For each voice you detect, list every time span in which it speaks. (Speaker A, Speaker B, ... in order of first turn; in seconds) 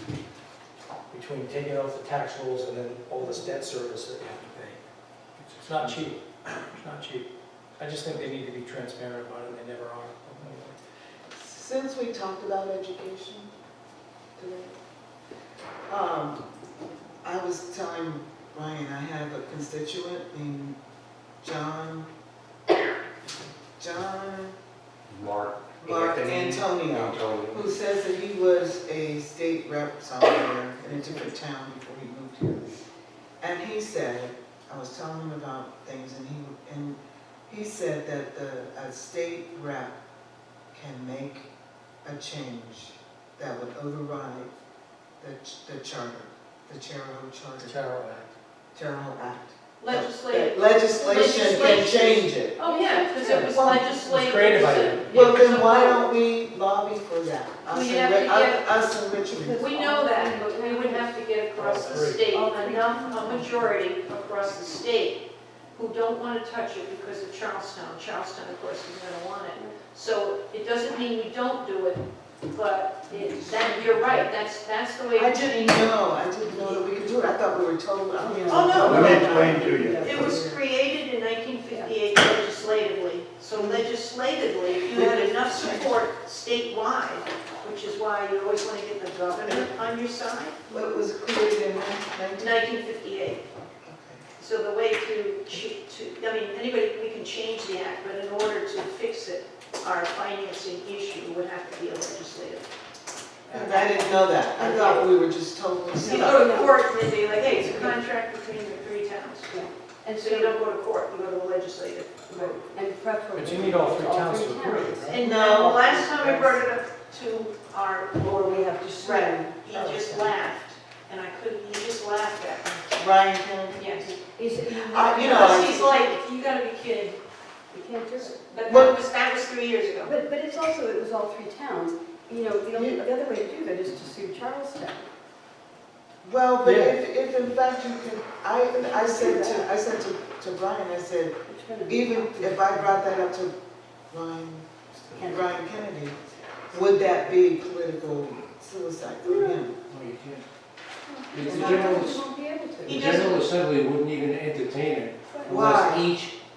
Speaker A: 1.1-4.8, 5.6-10.8, 47.6-48.3, 53.2-55.4, 61.5-62.2, 113.3-115.2
Speaker B: 5.4-6.2, 78.8-80.1, 136.6-136.9, 149.9-150.4, 151.3-152.2, 152.8-156.3
Speaker C: 11.3-13.5, 14.4-14.7, 15.9-16.4, 17.2-20.8, 21.4-22.1, 23.8-24.6, 25.8-32.7, 33.4-40.0, 40.7-41.5, 42.0-44.5, 45.2-47.8, 48.7-52.6, 53.4-53.9, 55.1-59.6, 75.1-80.6, 83.5-83.8, 84.9-86.0, 89.4-89.7, 90.7-92.7, 93.8-94.2, 103.5-106.5, 115.2-115.9, 122.9-123.8, 124.6-125.9, 128.7-129.0, 132.7-133.0, 136.2-143.5, 144.1-146.2, 146.7-149.7, 155.5-156.1
Speaker D: 25.1-27.6
Speaker E: 49.8-56.1, 57.6-58.9, 59.5-65.2, 65.7-76.8, 78.5-90.6, 92.4-93.4, 94.4-102.7, 103.5-105.1, 106.0-109.6, 110.1-112.7, 115.1-122.9, 123.7-124.2, 125.1-127.2, 128.2-130.2, 152.8-153.5
Speaker F: 51.0-51.8, 52.6-53.5, 59.2-61.2, 62.2-63.7, 69.5-69.8, 73.1-74.3, 78.2-80.3, 81.7-82.0, 104.6-105.0, 106.0-108.0, 109.5-110.6, 112.3-115.1, 115.7-116.6, 118.3-120.3, 124.0-126.2, 127.7-128.4, 130.0-135.1, 138.8-139.7, 141.5-142.9, 145.1-145.6, 149.2-149.7, 151.1-153.1, 155.3-155.6